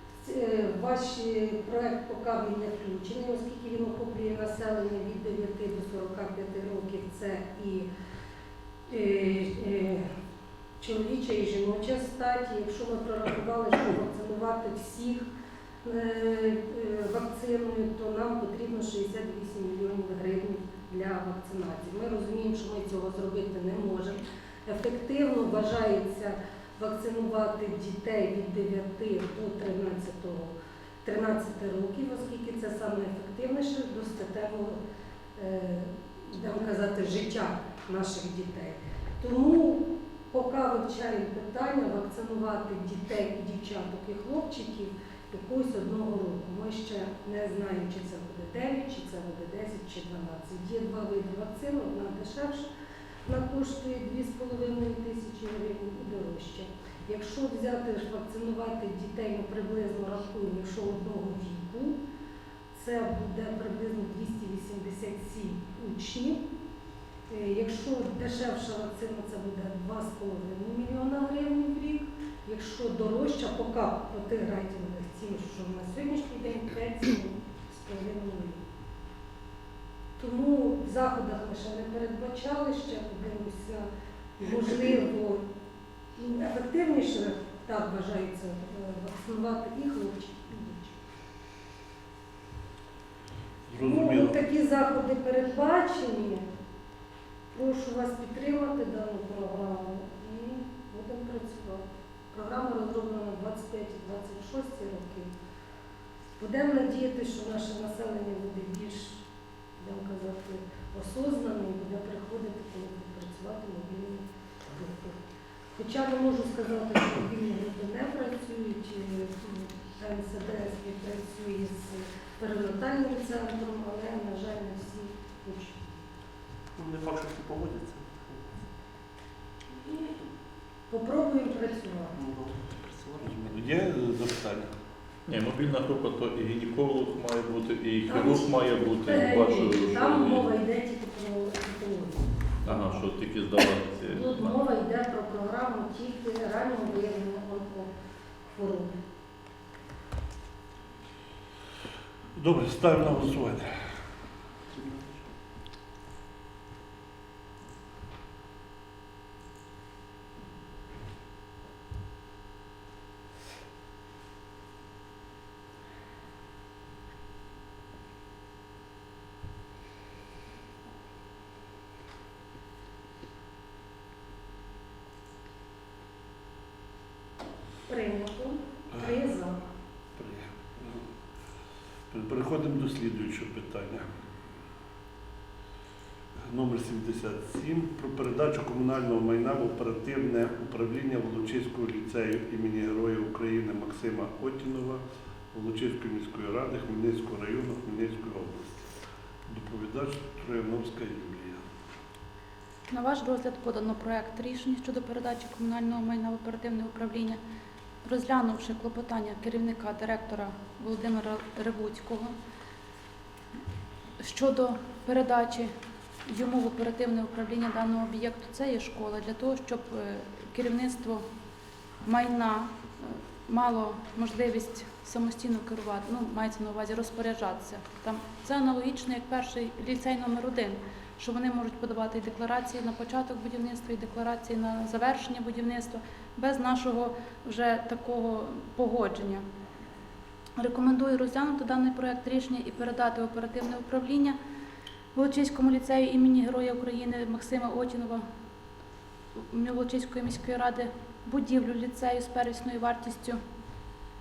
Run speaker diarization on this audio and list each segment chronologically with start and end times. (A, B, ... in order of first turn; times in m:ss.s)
0:00.2-0:07.9 A
0:08.9-0:10.0 A
0:10.8-0:15.2 A
0:15.8-0:34.8 A
0:35.4-0:52.7 A
0:53.2-1:02.0 A
1:02.7-1:06.4 A
1:07.3-1:18.6 A
1:20.2-1:23.9 A
1:24.4-1:25.4 A
1:26.2-1:31.0 A
1:33.7-1:34.4 B
1:33.8-1:36.4 A
1:37.5-1:45.3 A
1:46.4-1:49.2 A
1:49.8-1:55.2 A
1:55.7-2:05.9 A
2:06.8-2:08.6 C
2:10.9-2:12.2 A
2:12.2-2:13.3 C
2:13.2-2:14.7 B
2:15.3-2:20.5 D
2:18.1-2:22.9 A
2:22.6-2:24.6 D
2:24.1-2:27.9 A
2:28.5-2:28.9 A
2:32.4-2:33.7 B
2:34.7-2:35.2 C
2:57.9-2:59.6 A
3:00.1-3:01.0 B
3:02.1-3:04.2 B
3:06.5-3:15.0 B
3:15.5-3:18.9 B
3:19.5-3:21.6 B
3:22.9-3:27.4 E
3:28.0-3:32.3 E
3:34.2-3:35.7 E
3:36.3-3:41.2 E
3:42.0-3:59.4 E
4:00.6-4:04.4 E
4:05.1-4:08.2 E
4:09.4-4:13.4 E